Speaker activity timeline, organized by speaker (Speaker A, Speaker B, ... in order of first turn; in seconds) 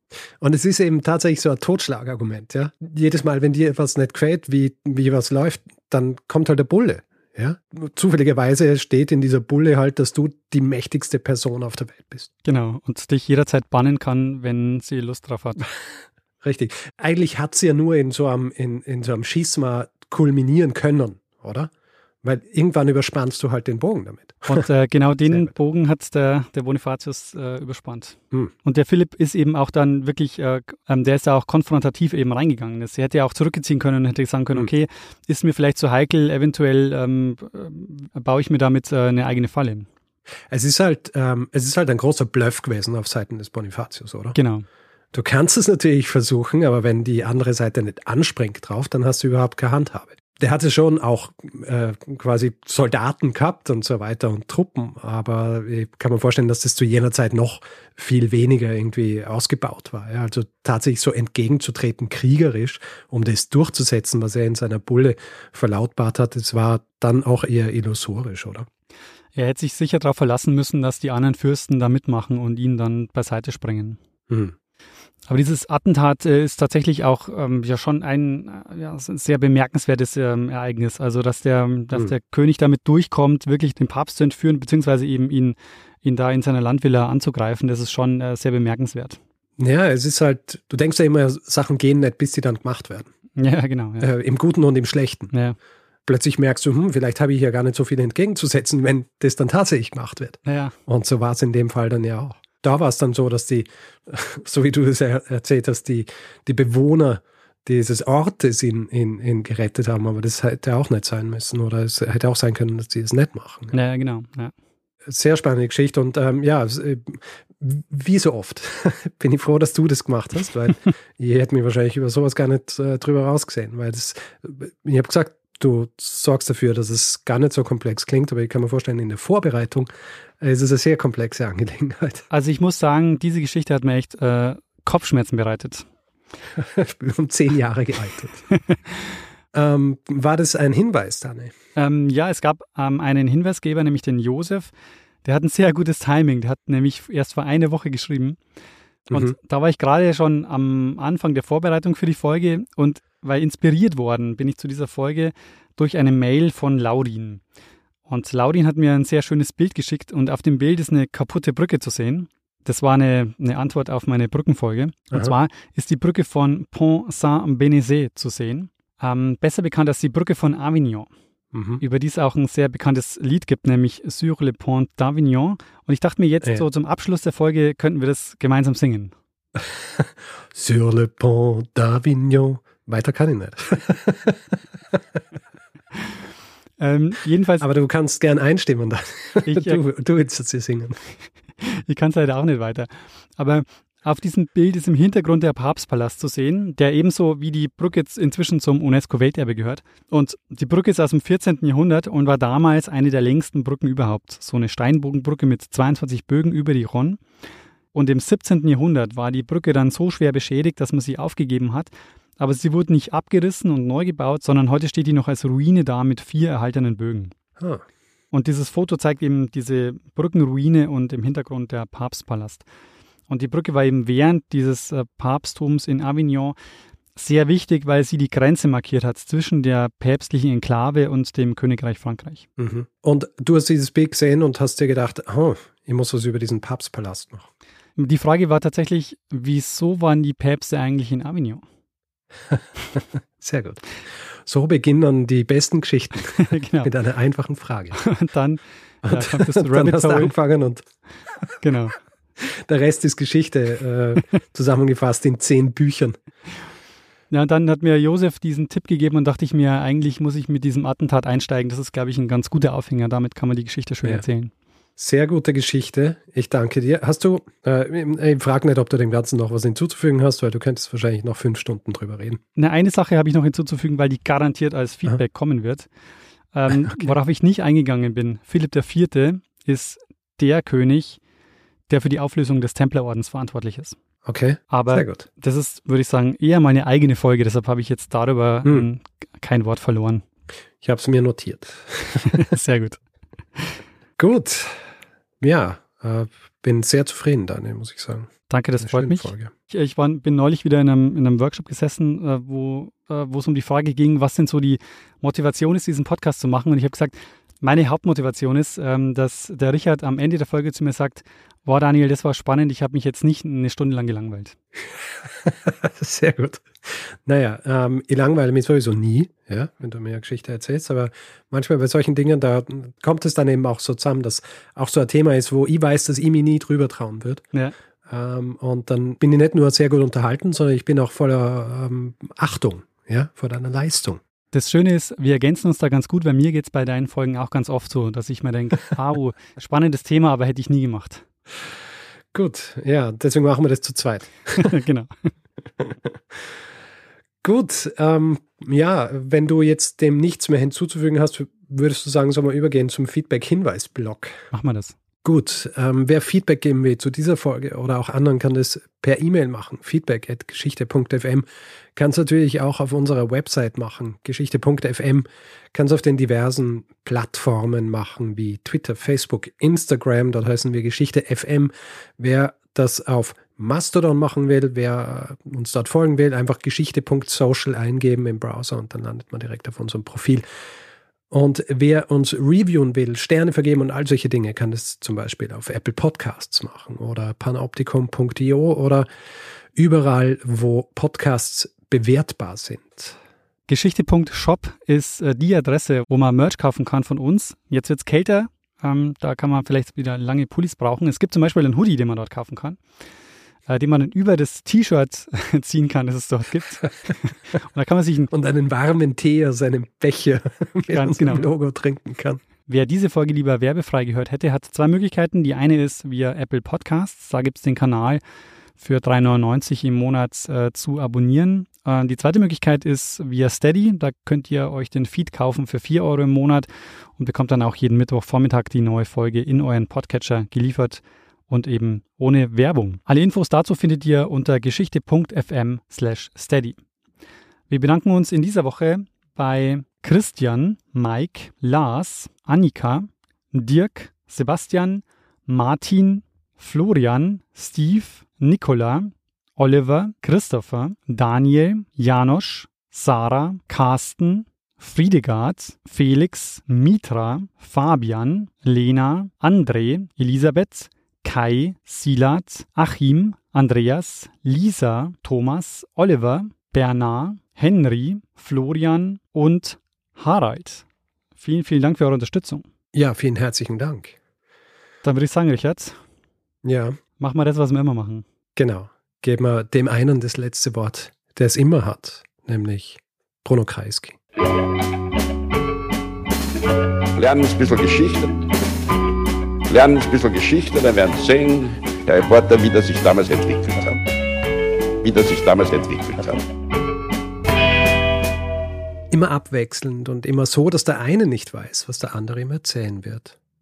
Speaker A: 0.4-12.3, 16.4-21.7, 22.2-24.6, 25.2-25.5, 40.5-44.4, 45.1-68.7, 74.3-74.5, 89.6-93.1, 94.0-95.3, 96.0-113.7, 115.1-129.9, 130.4-132.2, 136.6-138.4, 139.5-141.5, 149.1-149.3, 171.5-171.8, 179.6-185.0, 187.6-191.0, 217.6-217.8, 232.6-237.5, 242.5-243.8, 244.4-248.0, 249.0-250.9, 252.4-256.2, 265.0-272.4, 276.8-277.1, 284.3-285.2, 290.8-292.5, 294.2-294.9, 295.4-299.5, 315.3-327.4, 328.1-334.2, 342.3-344.7, 345.8-346.5, 347.4-354.5, 355.2-380.4, 381.3-389.1, 389.7-393.2, 408.3-412.4, 472.9-474.1, 476.6-477.0, 478.6-484.2, 499.1-503.3
Speaker B: 12.4-15.7, 24.5-39.9, 44.4-44.6, 69.3-74.0, 75.3-89.2, 93.4-94.1, 95.3-95.6, 100.4-100.7, 113.7-114.5, 132.3-135.9, 141.8-144.7, 145.2-148.4, 149.1-157.4, 158.1-171.1, 171.8-179.1, 186.8-187.7, 189.4-189.8, 191.6-207.2, 207.9-217.3, 218.3-222.6, 223.3-226.6, 227.2-232.5, 238.0-241.6, 246.3-246.9, 247.9-250.3, 251.6-252.0, 257.3-264.5, 272.6-275.9, 276.5-281.2, 281.9-283.9, 284.7-290.2, 292.3-293.0, 298.5-314.6, 334.5-341.2, 344.6-345.1, 354.5-355.0, 393.7-402.8, 403.7-408.3, 410.9-411.5, 412.6-418.2, 418.8-436.8, 437.7-470.8, 471.4-472.6, 475.0-476.0, 477.2-478.2
Speaker C: 487.2-488.4, 489.7-494.0, 495.0-496.4